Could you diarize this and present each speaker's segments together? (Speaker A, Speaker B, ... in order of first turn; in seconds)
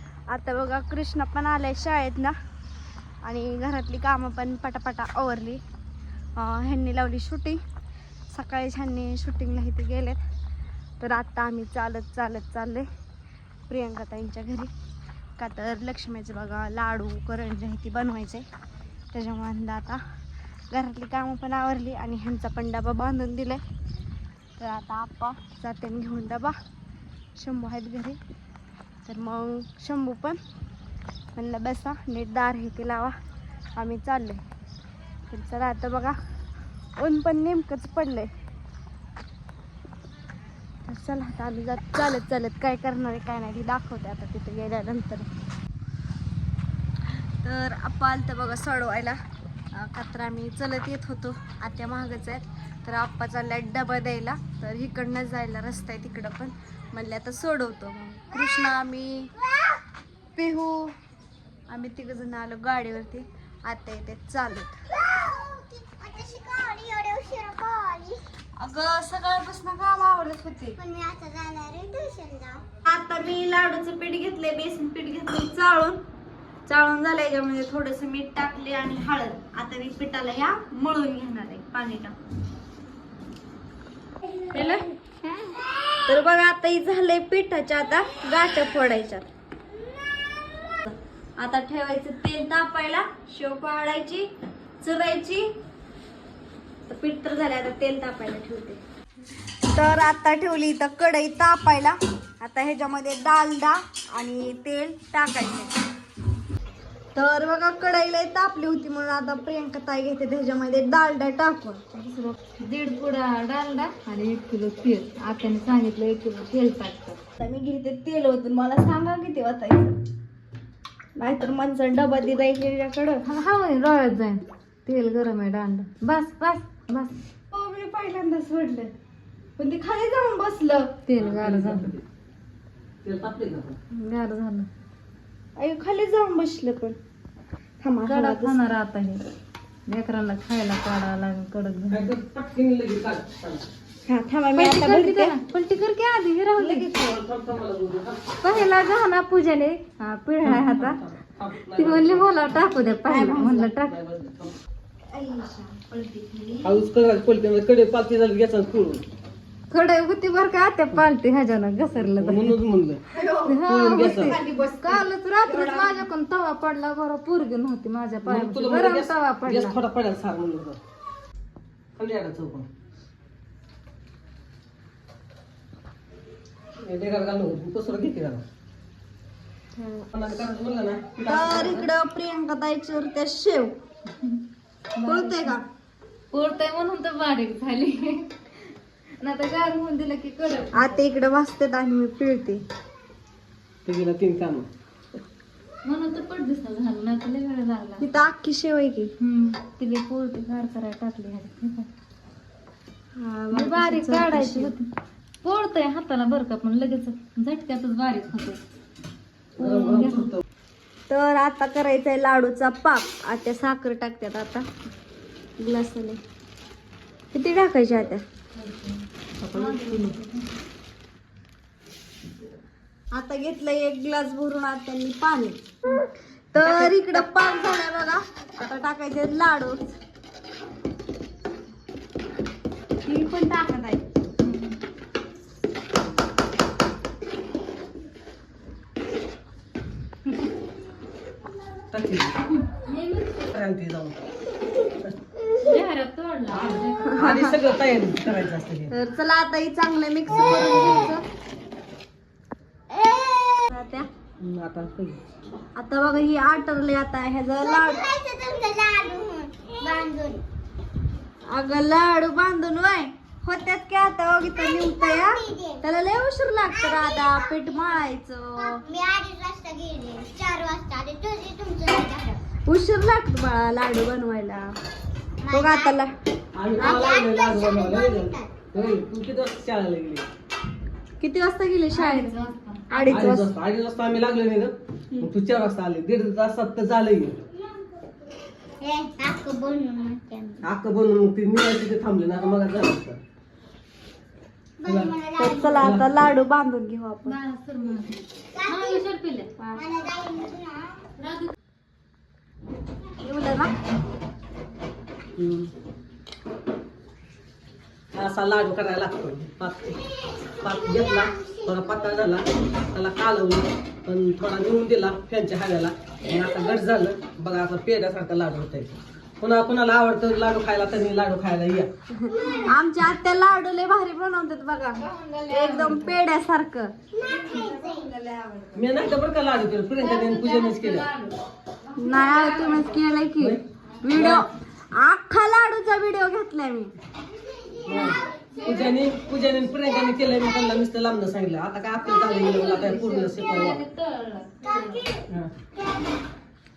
Speaker A: 0.3-2.4, 3.2-5.6, 6.4-7.6, 8.3-10.2, 11.0-12.9, 13.7-14.7, 15.4-18.5, 19.1-20.0, 20.7-23.6, 24.6-26.6, 27.4-28.2, 29.1-30.4, 31.4-33.2, 33.8-34.4, 35.3-36.2, 37.0-38.3, 40.9-45.3, 47.4-49.2, 49.7-59.3, 60.4-60.9, 61.7-64.7, 68.6-70.8, 72.8-76.0, 76.7-82.2, 84.5-84.9, 86.1-89.3, 91.4-94.3, 94.8-95.5, 96.9-98.8, 99.7-105.8, 107.2-112.4, 117.4-120.0, 121.2-123.2, 127.5-128.9, 129.6-130.9, 135.6-137.0, 137.8-138.6, 144.1-145.3, 146.6-147.2, 153.1-153.7, 155.1-156.8, 163.1-166.0, 179.8-180.1, 181.3-183.8, 185.0-185.6, 190.7-192.6, 198.0-199.1, 203.2-204.7, 211.1-214.7, 215.6-216.2, 217.3-218.2, 223.1-226.0, 226.5-229.9, 233.1-234.0, 247.0-247.6, 248.9-251.2, 253.7-254.1, 255.8-258.1, 261.5-268.8, 272.7-274.7, 275.5-276.1, 281.2-282.4, 282.9-283.5, 295.4-297.4, 303.2-303.7, 322.2-326.9, 332.0-336.9
Speaker B: 59.4-59.8, 64.9-68.2, 70.8-72.6, 85.2-85.8, 250.5-250.9, 252.9-253.7, 257.6-260.4, 264.6-265.8, 266.7-268.0, 268.6-272.4, 275.4-276.0, 276.8-278.8, 288.8-290.6, 294.8-295.9, 298.5-299.0, 299.8-301.0, 311.0-312.3, 327.1-328.1, 337.4-338.9, 344.6-345.2
Speaker C: 112.6-117.2, 123.3-127.3, 131.1-131.9, 133.9-134.7, 138.1-139.2, 139.9-142.1, 144.6-146.9, 148.4-151.0, 151.6-153.9, 159.7-162.6, 163.5-169.8, 185.0-185.5, 186.3-188.3, 189.2-191.0, 195.8-198.1, 199.2-201.9, 203.5-204.9, 205.4-208.6, 209.6-210.3, 218.6-220.5, 234.4-234.8, 242.7-243.5, 245.6-247.1, 281.9-283.1, 297.2-299.5, 301.2-301.5, 322.4-322.7, 325.0-326.2, 327.2-328.9, 330.0-333.0, 338.6-338.9, 342.1-345.1
Speaker D: 131.2-132.0, 133.0-133.8, 141.9-143.7, 146.8-148.7, 150.4-152.6, 153.8-154.6, 156.6-159.1, 161.9-163.0, 163.7-164.4, 168.2-170.8, 172.0-172.7, 176.8-178.4, 180.1-181.9, 193.8-194.7, 209.6-210.4, 219.4-220.2, 226.6-226.9, 241.9-242.4, 243.5-244.2, 246.5-248.9, 250.4-250.7, 254.4-255.2, 276.6-280.3, 283.1-287.4, 290.6-293.2, 294.9-295.1, 295.8-296.1, 305.4-305.7, 308.1-310.0, 310.6-321.9, 328.7-331.1, 334.1-334.5, 337.9-343.8